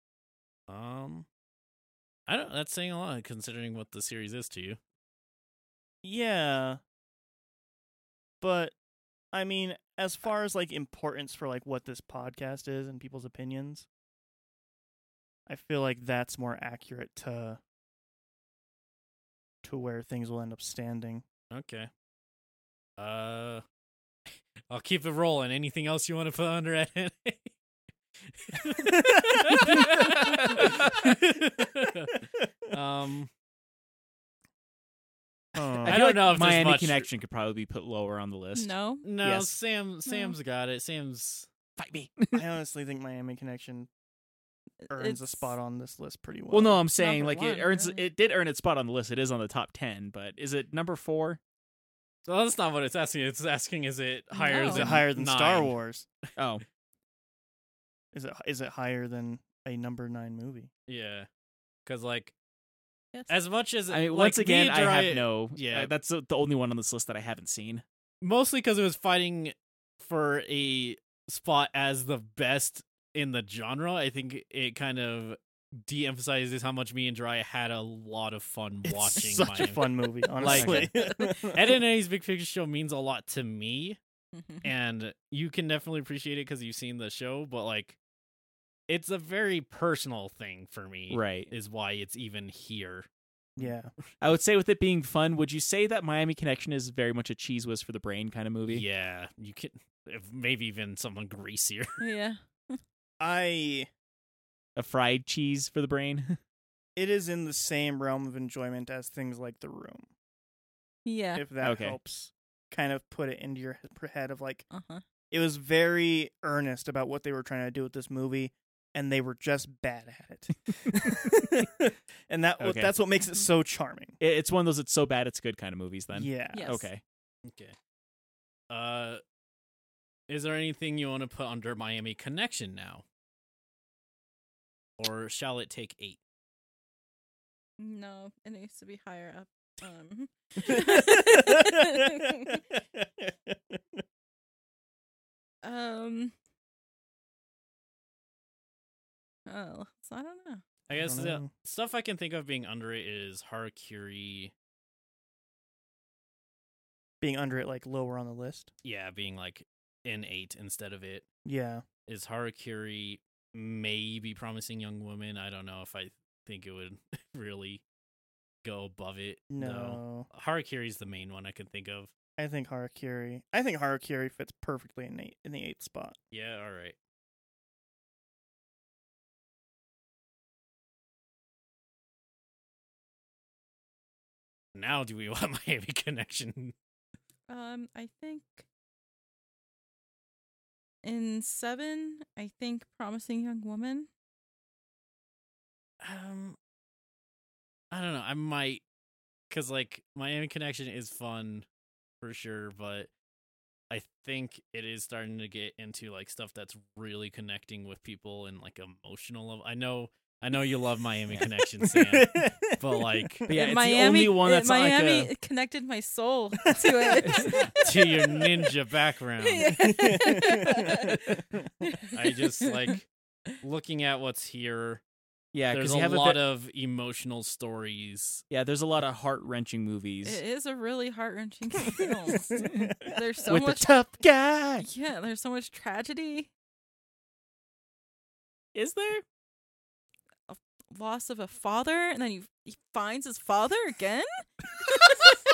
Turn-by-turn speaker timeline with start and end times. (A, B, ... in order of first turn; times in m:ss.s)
0:00.7-0:01.3 A
0:02.3-0:04.8 A
0:06.0-0:06.8 B
0:08.4-0:08.8 B
0:09.3-0:13.9 B
0:15.5-0:17.6 B
0:19.6-0:21.2 B
0:21.5-0:21.9 A
0:23.0-0:23.6 A
0:24.3-0:27.5 A
0:28.2-0:33.3 A
0:28.8-0:30.1 B
0:30.4-0:30.8 C
0:35.6-0:36.0 B
0:35.8-0:37.1 A
0:35.8-0:39.5 C
0:38.6-0:39.1 D
0:39.0-0:41.5 A
0:40.1-0:40.4 D
0:41.8-0:42.4 C
0:42.3-0:43.9 B
0:44.8-0:45.5 D
0:44.9-0:46.8 B
0:46.5-0:51.4 C
0:47.0-0:48.1 D
0:52.2-0:55.8 A
0:54.3-0:55.0 D
0:54.6-0:56.1 B
0:56.4-0:56.6 C
0:58.1-1:00.7 B
1:00.9-1:01.3 A
1:01.8-1:02.3 A
1:03.3-1:05.9 A
1:03.9-1:07.8 C
1:08.2-1:24.0 A
1:19.0-1:21.6 B
1:20.4-1:20.9 C
1:24.3-1:24.7 D
1:24.6-1:28.0 A
1:28.9-1:33.1 A
1:31.1-1:31.5 C
1:33.6-1:33.9 B
1:34.2-1:38.8 C
1:38.7-1:42.0 A
1:42.0-1:42.8 D
1:43.2-1:43.9 B
1:44.8-1:46.4 C
1:47.0-1:50.1 B
1:51.1-1:51.4 D
1:51.4-1:54.7 B
1:51.6-1:52.0 C
1:54.7-1:55.0 D
1:55.3-2:04.2 B
2:02.6-2:02.9 C
2:04.2-2:07.0 C
2:06.1-2:06.7 B
2:06.5-2:06.9 D
2:07.4-2:07.8 A
2:08.7-2:09.2 A
2:10.3-2:13.0 A
2:15.0-2:16.2 A
2:17.8-2:22.6 D
2:20.6-2:24.0 B
2:25.6-2:26.4 D
2:29.5-2:30.6 D
2:30.9-2:34.5 A
2:31.0-2:31.5 B
2:37.2-2:38.7 B
2:38.8-2:41.3 A
2:41.4-2:41.8 B
2:42.1-2:47.8 A
2:48.6-2:52.1 A
2:49.5-2:50.3 B
2:52.4-2:56.2 B
2:56.3-2:57.0 A
3:04.8-3:06.7 A
3:07.5-3:08.7 D
3:11.0-3:14.1 D
3:16.0-3:16.6 A
3:17.9-3:18.8 A
3:19.5-3:21.7 A
3:22.2-3:23.1 A
3:23.9-3:33.5 A
3:31.8-3:32.6 B
3:33.5-3:35.3 C
3:33.5-3:37.9 D
3:36.8-3:38.4 B
3:37.3-3:37.7 C
3:37.8-3:39.9 A
3:39.4-3:41.2 D
3:39.8-3:41.7 B
3:41.8-3:42.9 D
3:42.1-3:43.1 A
3:43.6-3:45.0 A
3:45.5-3:46.4 C
3:45.7-3:48.4 A
3:48.5-3:50.4 C
3:50.2-3:54.0 D
3:52.5-3:53.2 B
3:52.6-3:52.9 C
3:53.5-3:54.9 C
3:54.8-3:56.5 D
3:58.8-3:59.2 C
4:00.5-4:05.4 D